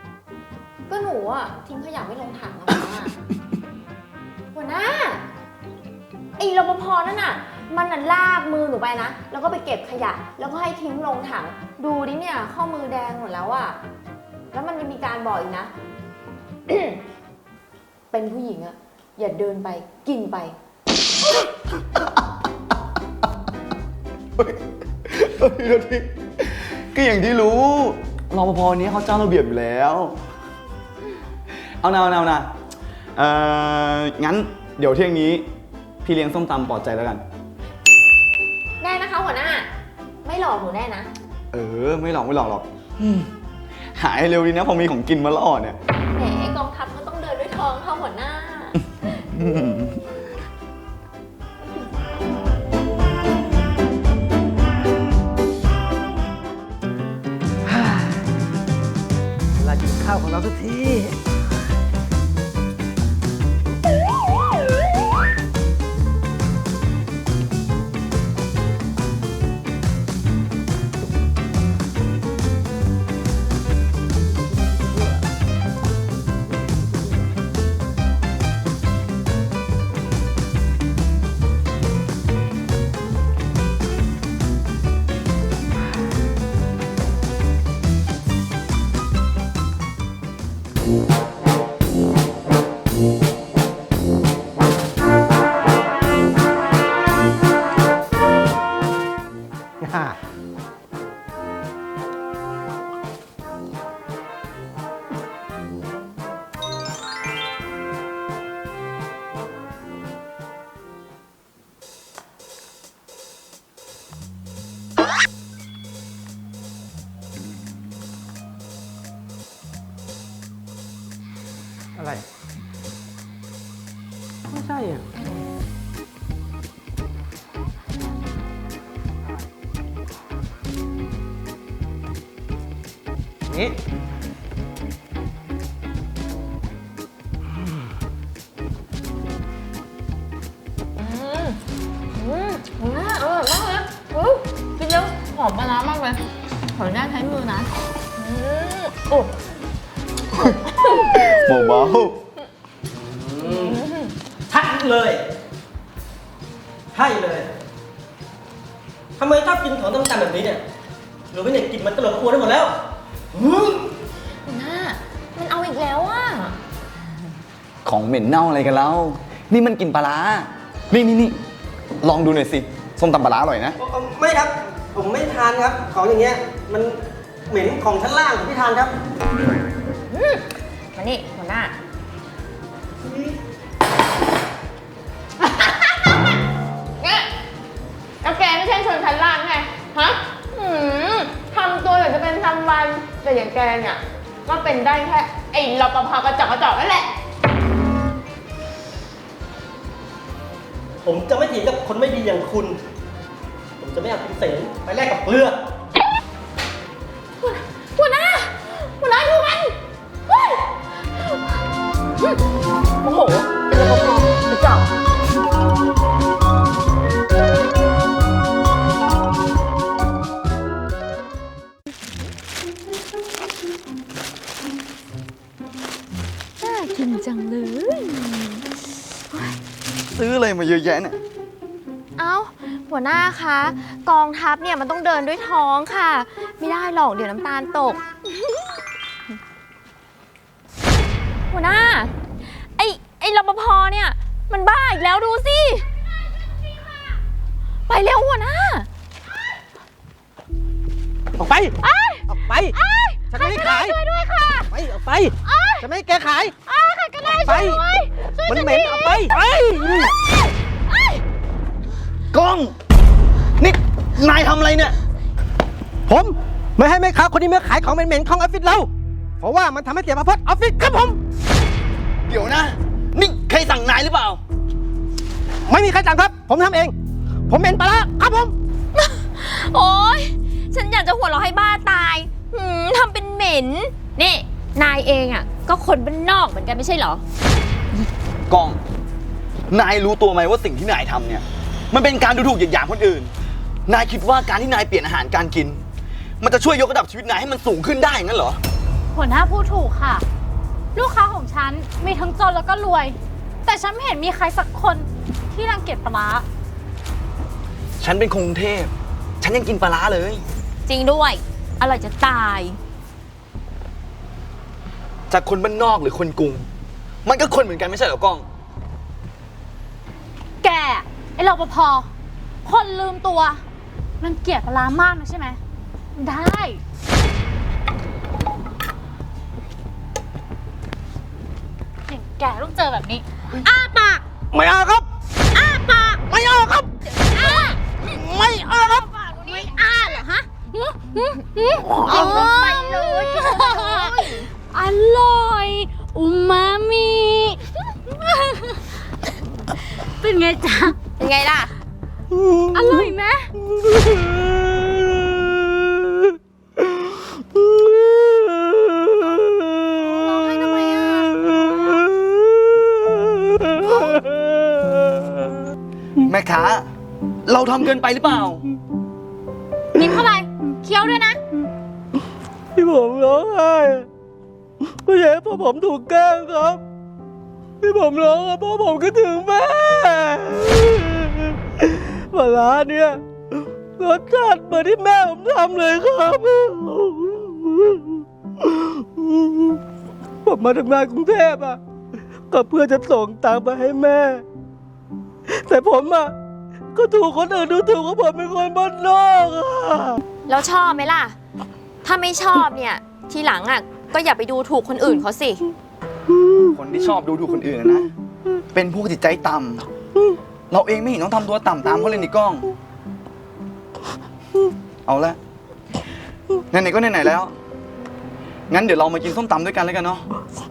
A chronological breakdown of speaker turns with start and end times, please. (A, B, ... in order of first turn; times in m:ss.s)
0:00.9-0:03.1 A
0:04.5-0:05.2 A
0:06.4-0:13.8 A
0:14.5-0:15.7 A
0:16.7-0:17.0 A
0:18.1-0:20.6 A
0:24.4-0:30.2 B
0:31.8-0:32.5 B
0:33.2-0:35.4 B
0:36.0-0:37.2 B
0:38.8-0:39.7 A
0:40.2-0:41.1 A
0:41.5-0:43.3 B
0:44.0-0:45.8 B
0:46.1-0:48.8 A
0:49.3-0:50.0 B
0:59.6-1:01.1 C
1:39.8-1:40.1 C
2:04.5-2:05.0 C
2:21.0-2:21.6 A
2:22.2-2:26.2 A
2:26.8-2:29.4 A
2:30.4-2:31.8 A
2:31.2-2:32.2 B
2:33.2-2:33.8 C
2:33.4-2:34.2 A
2:34.5-2:35.2 C
2:36.9-2:37.5 C
2:39.2-2:40.6 C
2:41.3-2:42.7 C
2:43.3-2:43.9 C
2:44.5-2:46.6 A
2:47.8-2:51.4 B
2:52.0-2:53.8 B
2:53.8-2:57.0 C
2:57.5-2:58.9 C
3:00.1-3:00.4 A
3:01.0-3:01.7 A
3:05.4-3:06.3 A
3:07.0-3:07.3 A
3:08.2-3:17.2 A
3:21.0-3:22.8 C
3:23.8-3:25.6 C
3:27.4-3:29.8 A
3:30.3-3:30.7 A
3:33.0-3:34.9 A
3:46.6-3:48.7 A
3:49.3-3:49.6 A
3:50.1-3:51.2 B
3:52.2-3:58.6 A
4:01.5-4:02.1 A
4:02.8-4:05.9 A
4:07.9-4:08.9 A
4:11.4-4:11.7 C
4:11.8-4:14.7 A
4:12.3-4:12.7 C
4:13.3-4:14.0 C
4:14.7-4:16.5 C
4:15.5-4:15.8 D
4:16.7-4:19.3 D
4:17.4-4:17.8 C
4:18.5-4:20.1 C
4:18.7-4:19.0 A
4:20.9-4:21.2 A
4:22.3-4:22.8 B
4:23.6-4:25.0 B
4:26.1-4:28.9 C
4:29.4-4:31.2 C
4:32.2-4:34.4 B
4:35.7-4:36.9 C
4:37.5-4:38.5 C
4:38.9-4:47.2 A
4:48.5-4:48.8 B
4:49.7-4:53.3 B
4:53.9-4:55.8 B
4:56.4-4:58.6 B
4:59.1-5:00.2 D
5:01.0-5:06.5 D
5:08.0-5:10.4 B
5:10.9-5:12.8 A
5:15.3-5:16.7 B
5:17.2-5:18.4 B
5:20.6-5:22.1 D
5:22.6-5:23.6 D
5:24.2-5:25.6 D
5:26.2-5:26.8 D
5:32.1-5:34.2 D
5:34.5-5:35.0 C
5:35.5-5:36.2 D
5:36.3-5:36.9 C
5:37.3-5:37.8 A
5:37.4-5:37.8 D
5:38.1-5:39.1 C
5:39.0-5:49.0 D
5:39.4-5:40.4 A
5:42.0-5:44.5 A
5:50.0-5:51.0 D
5:51.2-5:51.8 A
5:52.4-5:53.5 D
5:59.8-6:02.1 D
6:02.8-6:03.6 C
6:03.8-6:04.2 D
6:04.2-6:05.5 C
6:06.2-6:06.9 B
6:07.5-6:08.6 B
6:09.9-6:11.4 D
6:12.8-6:14.1 C
6:15.1-6:16.8 C
6:17.8-6:23.2 C
6:24.0-6:29.8 C
6:30.5-6:31.8 C
6:32.5-6:34.4 C
6:35.7-6:36.3 C
6:37.0-6:40.2 C
6:40.5-6:41.4 A
6:42.0-6:45.6 A
6:46.7-6:48.1 B
6:48.7-6:49.9 B
6:50.7-6:52.7 B
6:55.1-6:55.4 B
6:56.7-6:57.5 B
6:58.7-7:00.3 B